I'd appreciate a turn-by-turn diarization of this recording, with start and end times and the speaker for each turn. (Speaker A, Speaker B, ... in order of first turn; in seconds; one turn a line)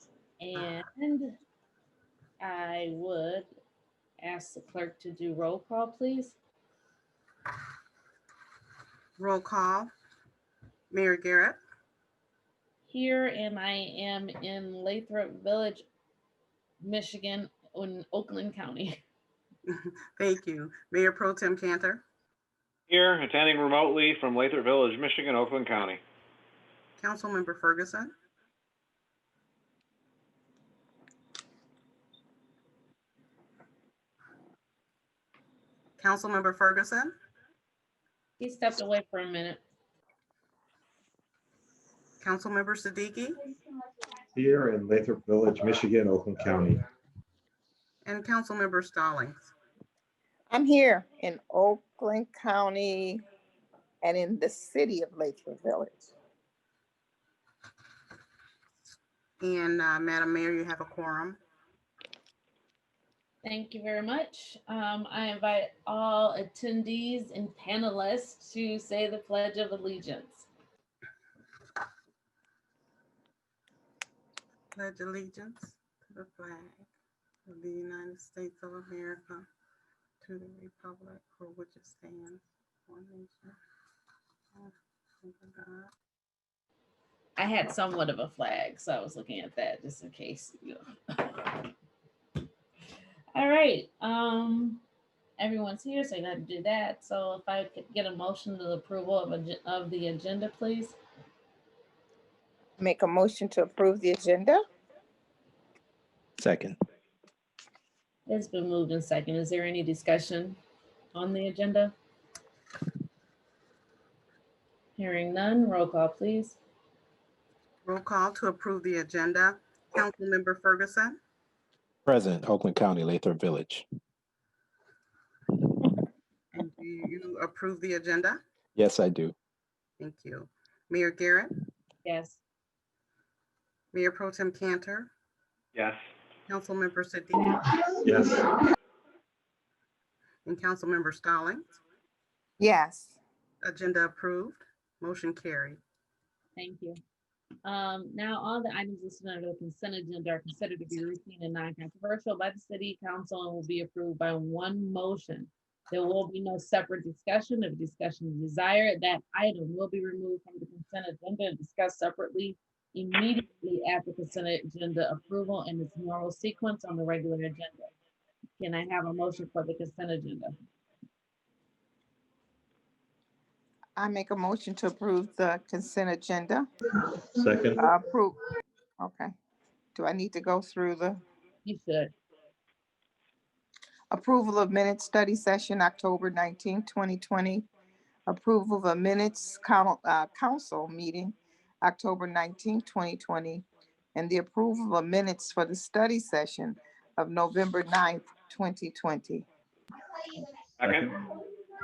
Speaker A: 0.4-1.4
Speaker A: 2.4-3.5
Speaker A: 4.2-6.3
Speaker B: 9.2-9.9
Speaker B: 10.9-11.6
Speaker A: 12.8-15.9
Speaker A: 16.8-19.0
Speaker B: 19.7-22.0
Speaker C: 22.9-26.0
Speaker B: 27.0-28.1
Speaker B: 36.0-37.1
Speaker A: 38.4-39.6
Speaker B: 42.2-43.4
Speaker D: 44.3-46.8
Speaker B: 48.0-49.5
Speaker E: 50.5-53.2
Speaker E: 54.0-56.1
Speaker B: 59.4-61.4
Speaker A: 63.4-70.5
Speaker B: 74.7-76.8
Speaker B: 77.5-79.4
Speaker B: 80.2-83.6
Speaker B: 84.5-85.9
Speaker A: 87.4-91.7
Speaker A: 93.3-94.8
Speaker A: 95.4-101.0
Speaker E: 102.8-104.6
Speaker F: 106.4-106.8
Speaker A: 108.3-110.6
Speaker A: 111.1-111.9
Speaker A: 115.0-116.6
Speaker B: 117.8-121.2
Speaker F: 122.0-123.8
Speaker B: 126.5-128.4
Speaker F: 128.8-129.3
Speaker B: 130.0-131.5
Speaker A: 132.0-132.4
Speaker B: 133.9-135.1
Speaker C: 135.7-136.0
Speaker B: 136.5-137.6
Speaker D: 138.0-138.4
Speaker B: 140.4-141.8
Speaker E: 142.6-143.2
Speaker B: 143.6-145.8
Speaker A: 146.6-147.0
Speaker A: 147.6-167.9
Speaker A: 168.6-170.5
Speaker E: 173.9-176.7
Speaker D: 177.4-177.8
Speaker E: 177.8-178.4
Speaker E: 179.0-179.3
Speaker E: 179.9-181.2
Speaker A: 181.6-182.1
Speaker E: 184.1-187.7
Speaker E: 188.3-199.4
Speaker C: 200.8-201.1